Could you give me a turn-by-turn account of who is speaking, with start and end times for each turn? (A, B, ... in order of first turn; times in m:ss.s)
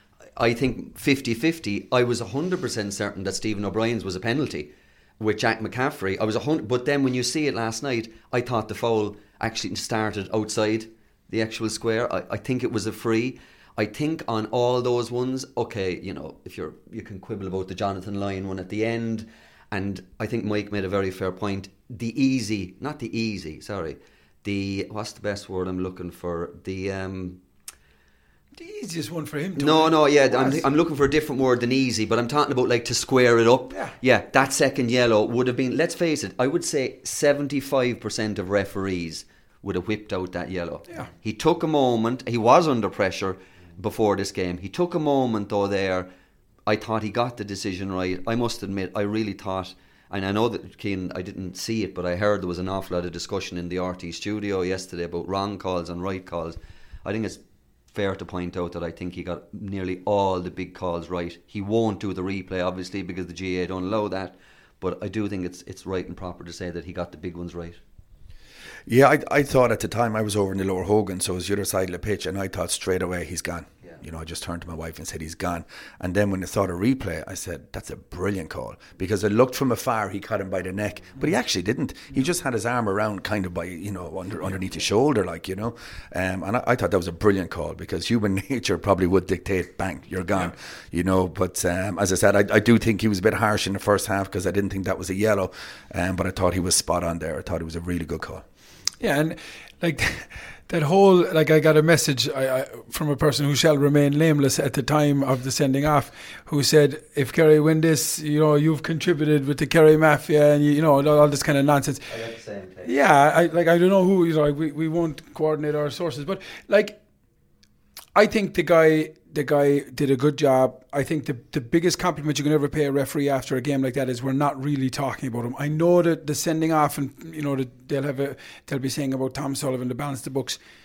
0:00.4-0:27.4 A
0:28.6-0:30.6 B
0:29.6-0:46.1 A
0:46.7-0:57.4 A
0:57.9-1:07.8 A
1:08.9-1:38.4 C
1:39.0-1:52.1 B
1:52.1-1:52.9 A
1:52.8-1:57.0 B
1:58.2-2:10.6 B